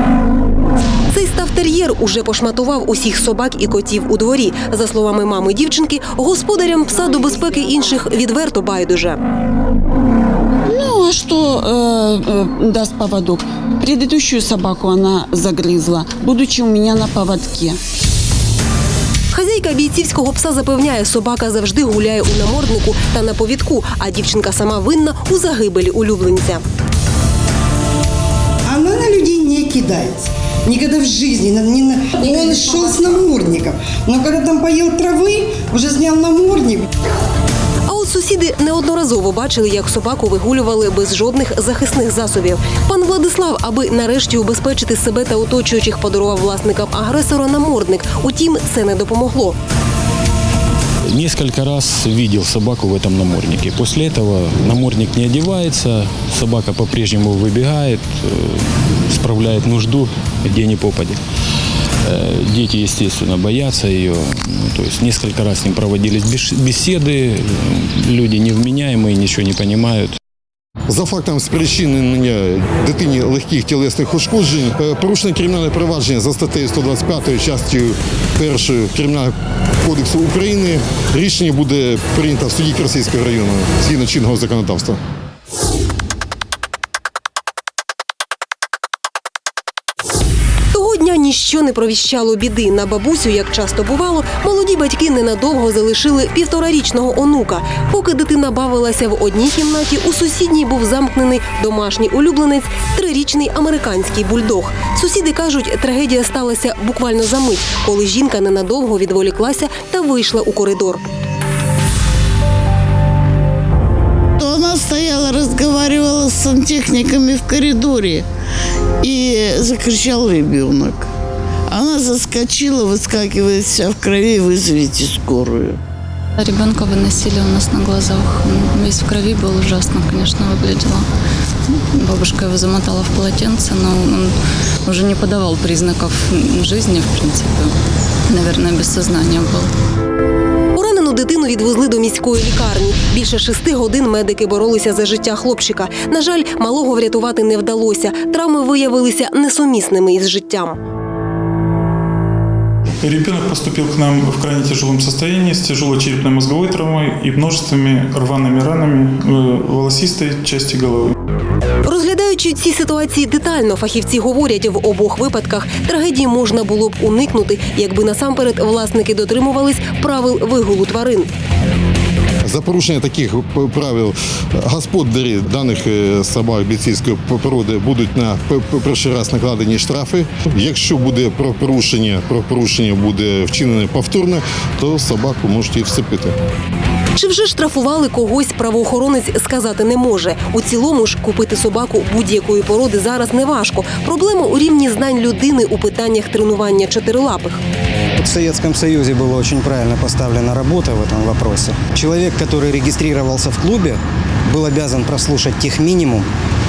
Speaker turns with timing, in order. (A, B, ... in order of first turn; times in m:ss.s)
0:01.1-0:09.2 A
0:10.6-0:17.8 B
0:19.3-0:26.6 A
0:28.7-0:36.8 C
0:37.9-0:49.6 A
0:51.1-1:01.2 D
1:02.0-1:10.2 D
1:10.9-1:25.0 E
1:30.7-1:51.0 A
1:54.4-1:58.2 F
1:59.0-2:01.1 F
2:01.7-2:05.8 F
2:06.4-2:11.1 G
2:11.7-2:17.7 G
2:18.3-2:19.7 G
2:20.8-2:30.8 A
2:33.0-2:41.1 H
2:41.8-2:51.3 A
2:52.4-3:06.3 E
3:07.2-3:17.6 A
3:18.2-3:26.3 I